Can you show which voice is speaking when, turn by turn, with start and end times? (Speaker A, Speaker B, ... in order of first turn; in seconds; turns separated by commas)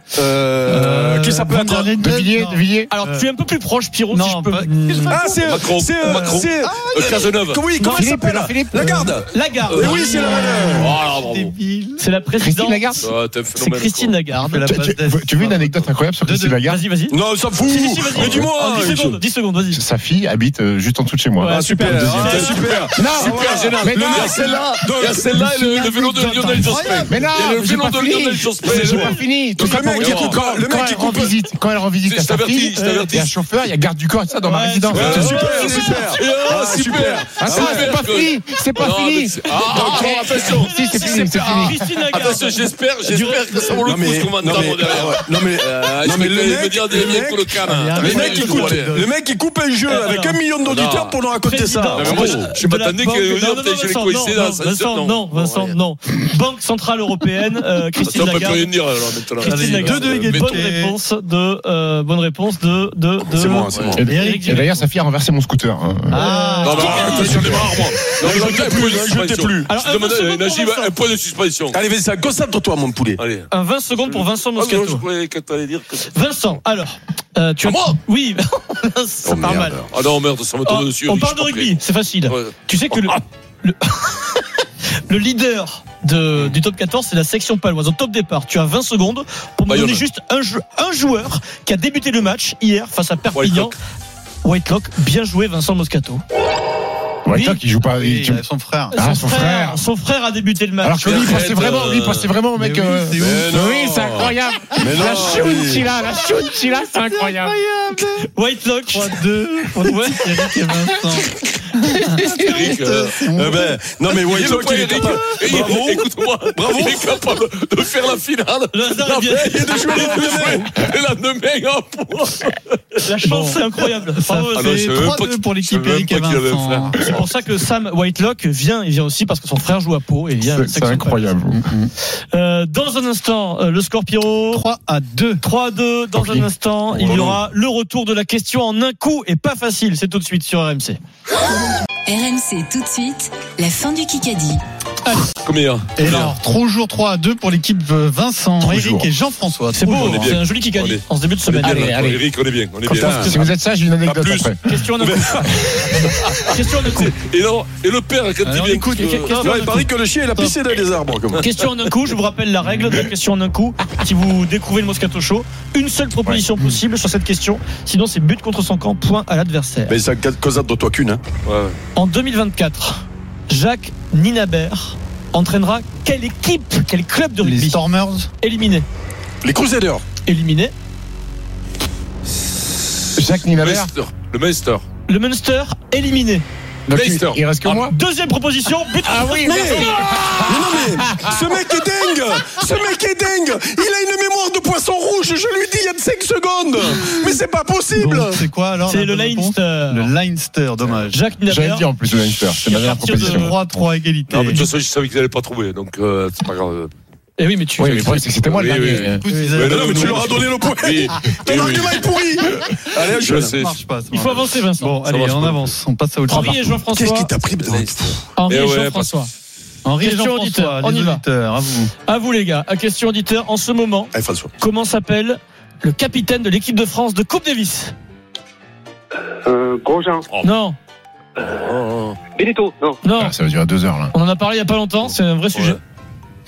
Speaker A: 0.1-1.9, Speaker B: 0.6-3.3, Speaker C: 1.9-2.9, Speaker D: 2.9-5.3, Speaker B: 4.1-7.4, Speaker A: 5.1-10.9, Speaker E: 5.4-7.6, Speaker D: 7.8-8.1, Speaker C: 7.9-9.0, Speaker D: 8.8-10.4, Speaker B: 9.7-12.0, Speaker E: 10.7-11.5, Speaker D: 12.0-14.7, Speaker C: 12.4-13.1, Speaker E: 13.0-14.1, Speaker B: 14.4-15.7, Speaker C: 14.7-16.8, Speaker B: 16.2-16.6, Speaker D: 16.6-19.8, Speaker A: 17.1-19.2, Speaker C: 18.1-18.4, Speaker C: 19.7-24.4, Speaker D: 21.4-22.5, Speaker A: 21.4-25.7, Speaker E: 22.2-30.6, Speaker B: 25.7-27.3, Speaker C: 27.1-35.4, Speaker D: 28.6-29.2, Speaker A: 29.6-31.4, Speaker E: 32.0-33.3, Speaker D: 32.8-33.1, Speaker D: 34.4-36.6, Speaker E: 34.9-49.0, Speaker A: 34.9-38.0, Speaker C: 37.4-41.9, Speaker D: 39.7-44.0, Speaker A: 43.8-52.5, Speaker B: 47.6-49.1, Speaker D: 49.9-50.4, Speaker E: 50.6-51.2, Speaker D: 51.4-58.7, Speaker E: 51.9-55.8, Speaker E: 58.1-60.6, Speaker D: 59.4-64.8, Speaker B: 59.4-61.0, Speaker A: 63.3-64.1, Speaker E: 63.7-64.0, Speaker C: 64.0-66.2, Speaker B: 64.1-64.6, Speaker B: 66.1-68.2, Speaker D: 66.1-67.6, Speaker E: 66.6-71.8, Speaker A: 66.7-69.7, Speaker D: 69.7-71.0, Speaker A: 71.7-73.2, Speaker E: 73.2-73.5, Speaker D: 73.5-75.0, Speaker E: 74.1-76.1, Speaker D: 76.1-79.8, Speaker E: 77.6-78.0, Speaker A: 79.2-79.9, Speaker E: 79.9-81.7, Speaker D: 80.7-84.4, Speaker E: 82.3-83.2, Speaker D: 85.0-93.7, Speaker E: 89.7-90.0, Speaker E: 93.3-93.7, Speaker D: 94.4-96.2, Speaker C: 97.2-98.4, Speaker D: 97.3-97.6, Speaker B: 97.9-99.0, Speaker D: 98.9-101.5, Speaker C: 98.9-99.8, Speaker C: 100.8-107.5, Speaker E: 101.0-102.3, Speaker B: 102.5-103.6, Speaker A: 103.2-105.9, Speaker B: 104.9-106.1, Speaker B: 106.9-108.3, Speaker D: 108.3-111.0, Speaker B: 108.8-115.8, Speaker E: 112.3-113.2, Speaker A: 113.3-117.1, Speaker E: 114.1-123.0, Speaker D: 118.7-120.6, Speaker D: 123.0-124.8, Speaker B: 123.2-127.0, Speaker E: 124.5-127.2, Speaker D: 127.0-131.3, Speaker C: 130.4-131.6, Speaker B: 131.5-131.9, Speaker D: 132.3-134.6, Speaker B: 134.5-135.4, Speaker D: 135.4-141.0, Speaker E: 136.9-137.3, Speaker F: 141.5-144.6, Speaker D: 145.0-145.3, Speaker E: 145.4-146.3, Speaker B: 146.0-150.4, Speaker C: 148.6-149.1, Speaker D: 149.7-152.0, Speaker E: 149.9-153.5, Speaker C: 151.6-152.2, Speaker C: 152.9-154.8, Speaker A: 152.9-153.3, Speaker E: 154.0-154.5, Speaker D: 154.6-157.1, Speaker A: 155.0-155.5, Speaker E: 156.0-159.6, Speaker B: 158.4-160.6, Speaker D: 158.9-159.5, Speaker A: 159.3-161.4, Speaker D: 161.4-169.9, Speaker C: 166.2-166.6, Speaker A: 169.9-171.2, Speaker E: 171.4-171.8, Speaker D: 171.9-177.8, Speaker B: 177.4-178.3, Speaker D: 178.4-178.8, Speaker A: 179.4-180.0, Speaker D: 180.2-180.7, Speaker C: 183.1-183.9, Speaker E: 183.4-184.8, Speaker D: 185.1-186.4, Speaker C: 186.9-187.9, Speaker E: 186.9-187.9, Speaker D: 187.9-190.3, Speaker C: 189.0-191.4, Speaker A: 189.4-198.4, Speaker B: 196.9-197.4, Speaker B: 197.9-201.2, Speaker D: 198.8-200.1, Speaker D: 201.1-203.6, Speaker C: 201.4-203.5, Speaker B: 203.0-204.7, Speaker E: 204.3-206.9, Speaker D: 207.4-208.1, Speaker C: 207.8-209.3, Speaker E: 207.8-212.1, Speaker B: 209.0-210.5, Speaker A: 209.6-213.5, Speaker E: 213.0-213.8, Speaker B: 213.3-216.8, Speaker D: 214.1-215.0, Speaker E: 215.0-215.7, Speaker D: 216.3-217.3, Speaker A: 216.9-218.2, Speaker E: 217.6-219.1, Speaker D: 218.3-219.3, Speaker B: 219.8-221.9, Speaker D: 220.0-221.2, Speaker D: 222.0-227.9, Speaker A: 224.1-224.5, Speaker G: 229.3-230.3, Speaker D: 230.4-230.8, Speaker G: 231.4-231.7, Speaker E: 231.7-232.2, Speaker G: 232.3-233.0, Speaker D: 233.0-233.3, Speaker C: 233.1-234.1, Speaker D: 234.1-235.8